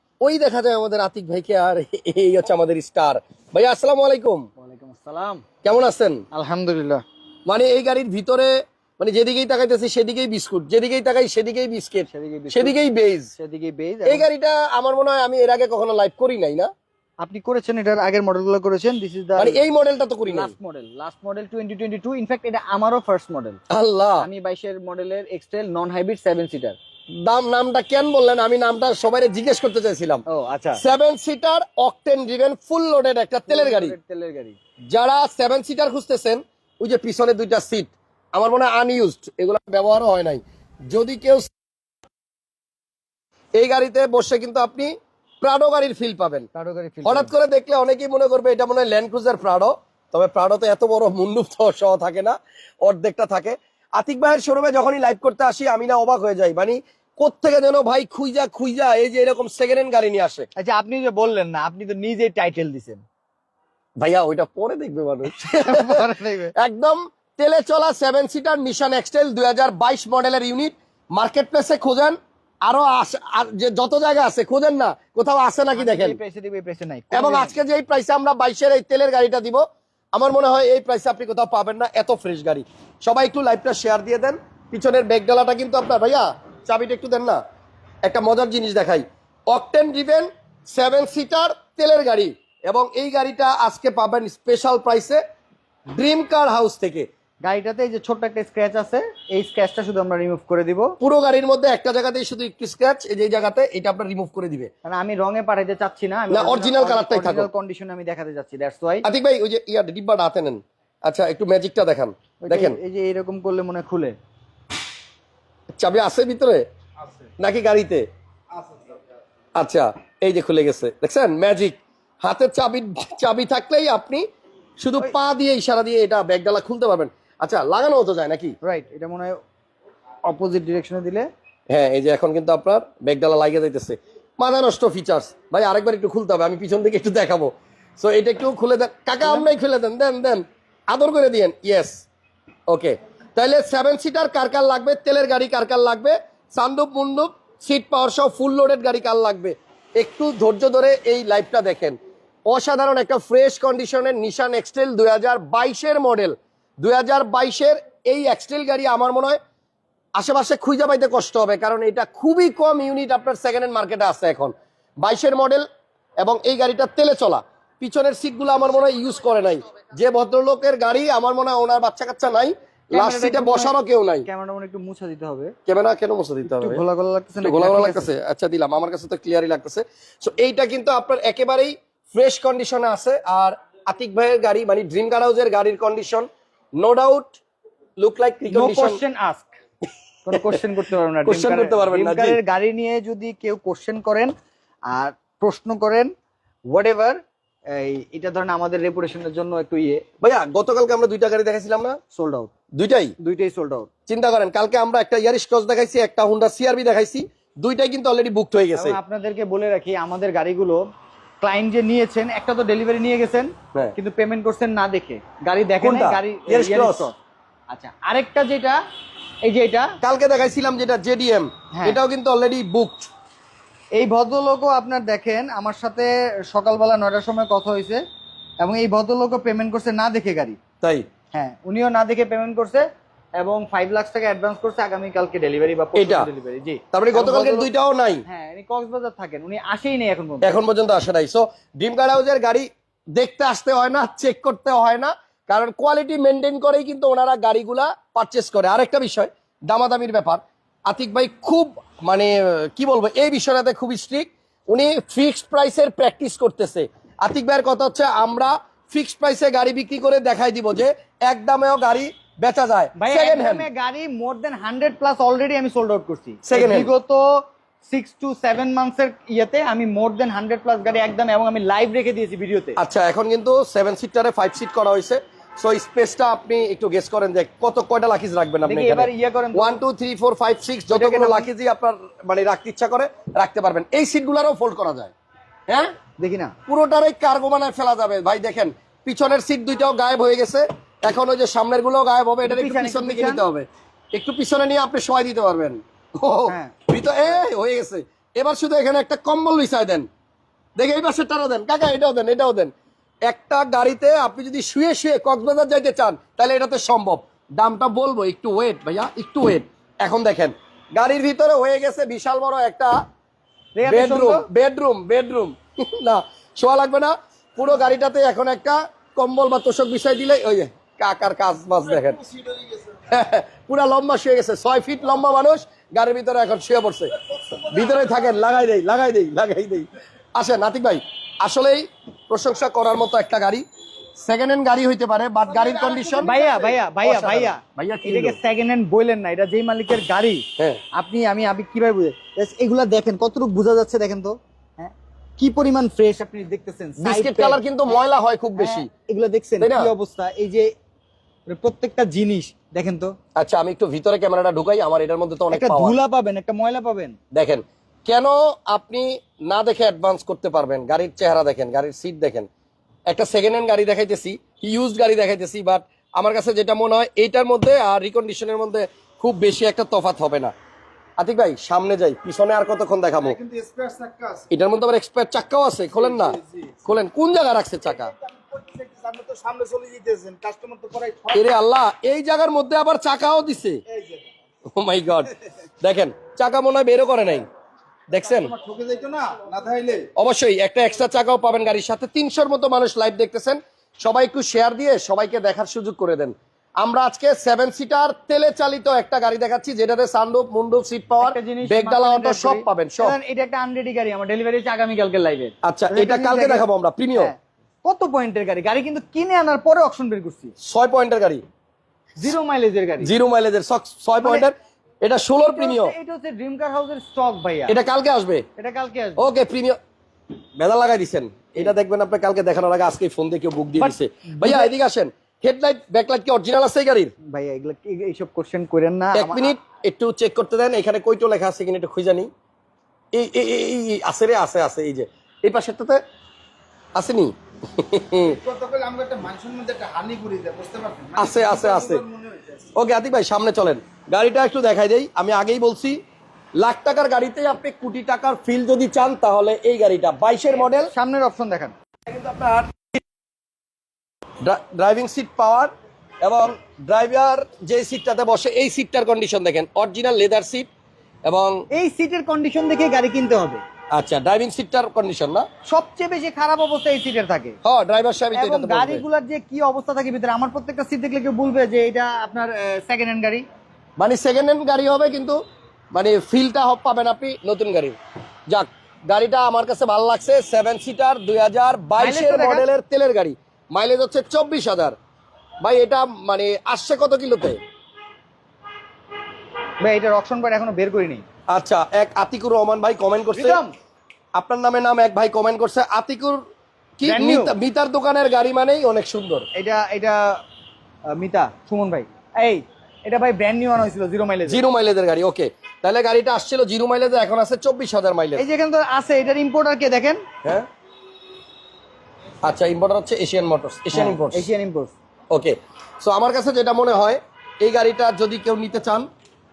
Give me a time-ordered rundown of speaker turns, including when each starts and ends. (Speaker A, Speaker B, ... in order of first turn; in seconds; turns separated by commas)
Speaker A: 0.2-4.5, Speaker B: 4.6-5.4, Speaker A: 5.6-6.2, Speaker B: 6.3-7.0, Speaker A: 7.5-13.3, Speaker B: 12.1-12.8, Speaker B: 13.3-14.3, Speaker A: 14.1-16.7, Speaker B: 17.2-19.6, Speaker A: 19.4-20.5, Speaker B: 20.2-23.6, Speaker A: 23.7-24.3, Speaker B: 24.2-26.8, Speaker A: 27.1-30.2, Speaker B: 30.3-30.8, Speaker A: 30.8-34.0, Speaker B: 33.5-34.6, Speaker A: 34.9-41.5, Speaker A: 43.6-46.5, Speaker B: 46.5-47.3, Speaker A: 47.0-60.5, Speaker B: 60.6-63.0, Speaker A: 64.0-76.2, Speaker B: 65.3-66.5, Speaker B: 75.8-77.6, Speaker A: 77.1-87.4, Speaker A: 88.0-95.2, Speaker A: 96.0-97.1, Speaker B: 97.4-101.0, Speaker A: 101.0-104.7, Speaker B: 104.8-109.1, Speaker A: 106.3-107.5, Speaker A: 109.0-112.8, Speaker B: 112.4-114.2, Speaker A: 115.8-116.6, Speaker A: 117.4-118.0, Speaker A: 119.6-124.2, Speaker A: 124.8-128.6, Speaker B: 128.6-129.4, Speaker B: 130.3-131.3, Speaker A: 131.7-142.0, Speaker B: 139.2-139.5, Speaker A: 142.7-152.0, Speaker A: 152.5-159.4, Speaker A: 160.2-165.7, Speaker A: 166.2-174.3, Speaker B: 172.9-175.5, Speaker A: 175.7-176.8, Speaker B: 176.4-178.1, Speaker A: 177.4-187.4, Speaker A: 188.0-189.0, Speaker B: 188.5-189.5, Speaker B: 190.2-194.3, Speaker A: 190.3-190.6, Speaker A: 191.2-192.4, Speaker B: 194.9-196.1, Speaker B: 196.7-200.0, Speaker A: 200.2-202.0, Speaker B: 202.1-202.5, Speaker A: 202.8-203.2, Speaker B: 203.2-203.9, Speaker A: 204.1-209.0, Speaker B: 208.7-210.8, Speaker B: 211.4-217.2, Speaker A: 215.8-217.1, Speaker B: 217.7-218.8, Speaker B: 219.4-219.9, Speaker A: 220.0-223.1, Speaker B: 221.7-222.0, Speaker B: 223.9-228.0, Speaker B: 228.6-230.6, Speaker B: 231.3-232.8, Speaker B: 233.4-237.7, Speaker A: 235.9-236.3, Speaker A: 236.9-238.2, Speaker B: 238.2-240.6, Speaker A: 240.4-263.7, Speaker B: 263.0-267.2, Speaker A: 266.4-266.9, Speaker B: 267.9-272.8, Speaker A: 272.8-285.1, Speaker B: 278.6-279.8, Speaker B: 280.9-281.5, Speaker A: 285.7-285.9, Speaker B: 286.2-286.5, Speaker A: 286.7-300.1, Speaker B: 292.4-293.4, Speaker B: 296.5-296.8, Speaker A: 300.8-302.7, Speaker A: 303.2-312.9, Speaker B: 313.8-314.4, Speaker A: 313.9-322.2, Speaker C: 322.4-322.8, Speaker A: 323.1-327.1, Speaker A: 327.7-333.6, Speaker A: 334.2-336.4, Speaker C: 335.6-336.1, Speaker B: 336.2-347.6, Speaker A: 337.0-338.4, Speaker A: 347.0-348.9, Speaker B: 348.6-350.7, Speaker A: 349.6-349.9, Speaker B: 351.5-353.1, Speaker A: 353.4-356.0, Speaker B: 355.5-357.2, Speaker A: 357.3-362.5, Speaker A: 363.1-370.5, Speaker A: 371.2-373.4, Speaker C: 373.4-374.5, Speaker A: 374.5-378.1, Speaker C: 376.2-376.8, Speaker C: 378.4-381.5, Speaker A: 381.3-383.8, Speaker A: 384.7-387.4, Speaker A: 388.1-388.5, Speaker C: 388.3-390.1, Speaker A: 390.1-403.2, Speaker B: 401.2-406.6, Speaker A: 405.6-407.3, Speaker B: 407.1-410.5, Speaker A: 410.6-411.4, Speaker B: 412.2-413.1, Speaker A: 413.0-415.9, Speaker B: 414.2-414.5, Speaker B: 415.4-417.8, Speaker A: 417.7-418.4, Speaker B: 418.6-419.3, Speaker A: 419.2-419.8, Speaker A: 420.6-427.1, Speaker B: 423.8-424.7, Speaker B: 427.3-429.5, Speaker A: 429.1-432.3, Speaker A: 433.1-436.0, Speaker A: 436.9-438.4, Speaker C: 438.3-442.6, Speaker A: 441.1-442.0, Speaker A: 442.8-446.0, Speaker A: 446.6-450.9, Speaker B: 450.7-451.7, Speaker A: 452.1-452.9, Speaker A: 454.4-455.7, Speaker A: 456.2-460.7, Speaker A: 461.2-461.6, Speaker B: 461.7-463.6, Speaker A: 463.9-465.4, Speaker B: 465.7-467.6, Speaker A: 467.6-469.0, Speaker B: 468.3-473.4, Speaker A: 474.0-475.4, Speaker A: 475.9-477.9, Speaker A: 478.5-484.9, Speaker B: 482.0-482.6, Speaker A: 485.6-487.6, Speaker B: 489.8-491.2, Speaker A: 491.5-493.6, Speaker B: 493.3-493.8, Speaker A: 494.3-496.4, Speaker A: 497.0-499.4, Speaker B: 497.0-497.5, Speaker B: 499.5-500.4, Speaker B: 501.1-504.6, Speaker A: 504.4-508.4, Speaker B: 508.4-510.2, Speaker A: 512.4-514.5, Speaker B: 513.9-514.9, Speaker A: 515.3-519.1